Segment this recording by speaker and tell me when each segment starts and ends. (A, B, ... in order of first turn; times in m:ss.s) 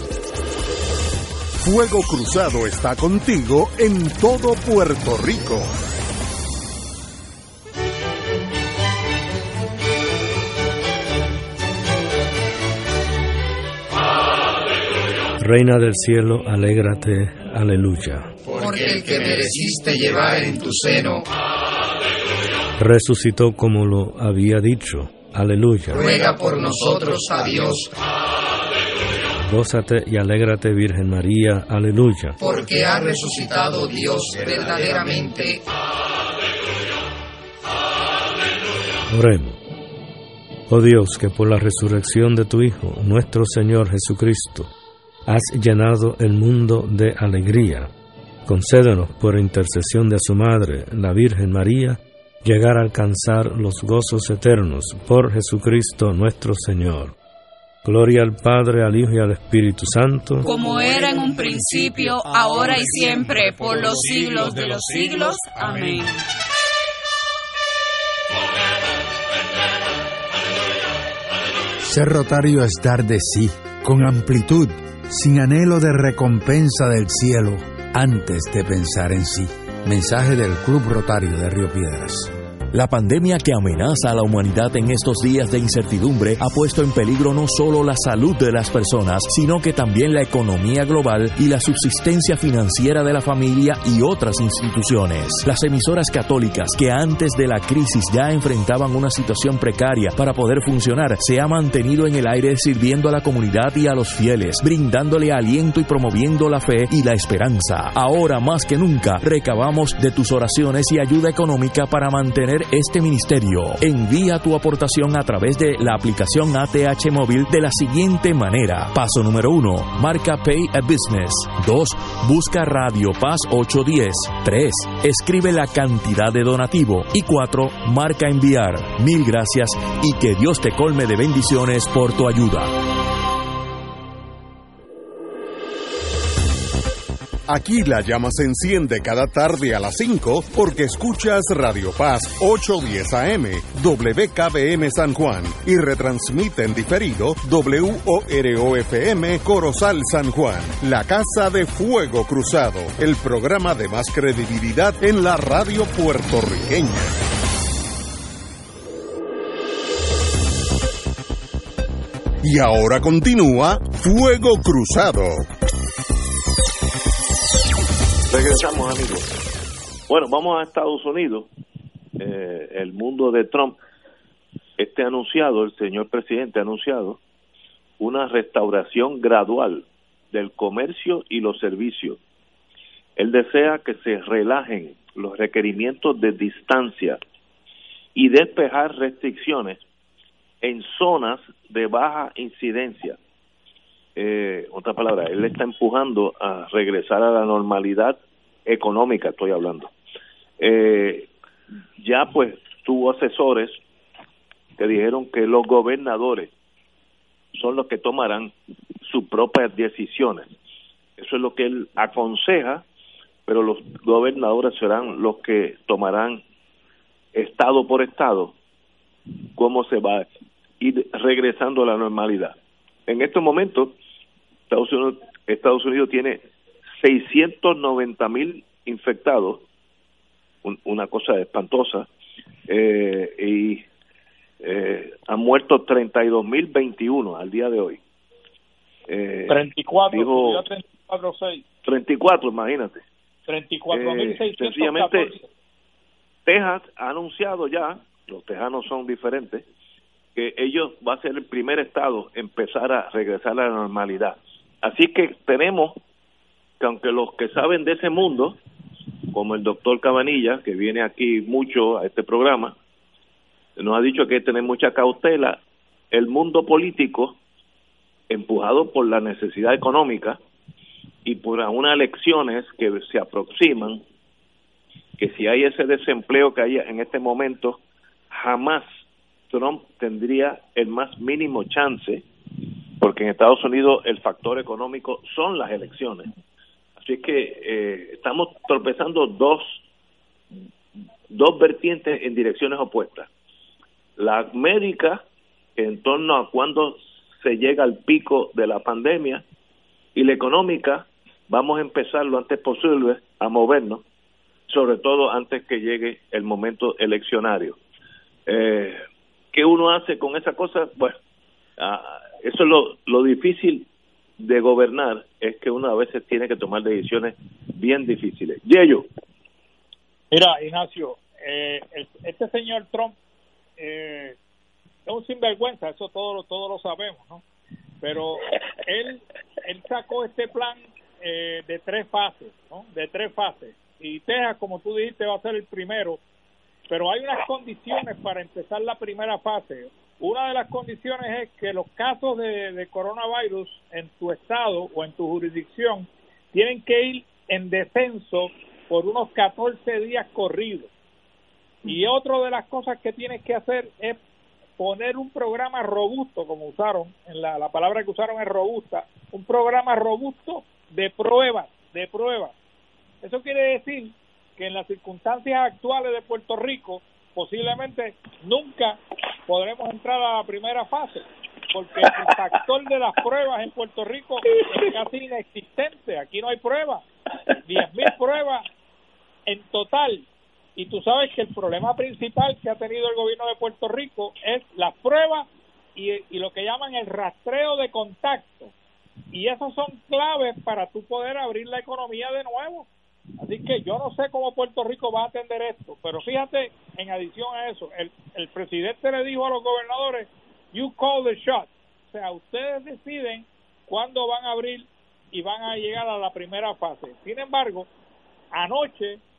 0:01.6-0:05.8 A
0:15.4-0:18.3 B
0:18.5-0:21.2 C
0:22.8-0:26.1 B
0:26.0-0:27.9 C
0:29.4-0:32.4 B
0:32.4-0:35.6 C
0:39.1-0:39.6 B
0:40.7-0:44.7 B
0:45.3-0:47.9 B
0:48.5-0:57.1 B
0:57.8-1:00.5 B
1:00.5-1:06.2 D
1:11.8-1:22.3 E
1:22.7-2:12.8 F
2:17.5-2:37.2 A
2:42.4-2:45.5 A
2:48.3-2:49.3 G
2:50.1-2:51.5 G
2:52.2-2:53.8 G
2:54.8-2:57.2 G
2:58.0-3:02.2 G
3:03.2-3:07.2 G
3:08.2-3:09.8 G
3:10.6-3:13.2 G
3:14.2-3:19.9 G
3:20.6-3:21.3 G
3:22.0-3:23.8 G
3:24.8-3:26.5 G
3:27.5-3:30.5 G
3:31.2-3:32.8 G
3:33.5-3:36.4 G
3:37.3-3:38.6 G
3:39.6-3:40.3 G
3:40.8-3:42.6 G
3:43.1-3:44.0 G
3:44.7-3:46.4 G
3:47.0-3:49.6 G
3:50.6-3:52.1 G
3:52.7-3:53.9 G
3:54.6-3:58.0 G
3:59.1-4:00.6 G
3:59.5-4:01.6 H
4:01.8-4:03.0 G
4:03.5-4:05.5 H
4:03.9-4:05.3 G
4:06.5-4:09.6 G
4:10.4-4:16.0 G
4:16.8-4:18.6 G
4:19.3-4:22.8 G
4:23.8-4:25.6 G
4:26.1-4:27.4 G
4:28.3-4:30.4 G
4:31.2-4:34.0 G
4:35.2-4:37.8 G
4:38.3-4:38.9 G
4:39.5-4:42.2 G
4:43.0-4:46.3 G
4:47.0-4:49.8 G
4:51.3-4:53.3 G
4:54.2-4:55.2 G
4:55.8-4:59.4 G
5:00.2-5:04.0 G
5:04.7-5:07.8 G
5:08.5-5:09.0 G
5:09.5-5:11.2 G
5:11.8-5:13.9 G
5:14.4-5:19.1 G
5:20.3-5:23.2 H
5:23.8-5:24.4 H
5:25.1-5:27.4 H
5:28.0-5:36.2 H
5:36.9-5:50.9 H
5:51.8-5:54.2 H
5:54.8-6:02.5 H
6:03.2-6:17.0 H
6:17.6-6:18.7 H
6:19.5-6:28.7 H
6:29.3-6:47.9 H
6:48.5-6:49.2 H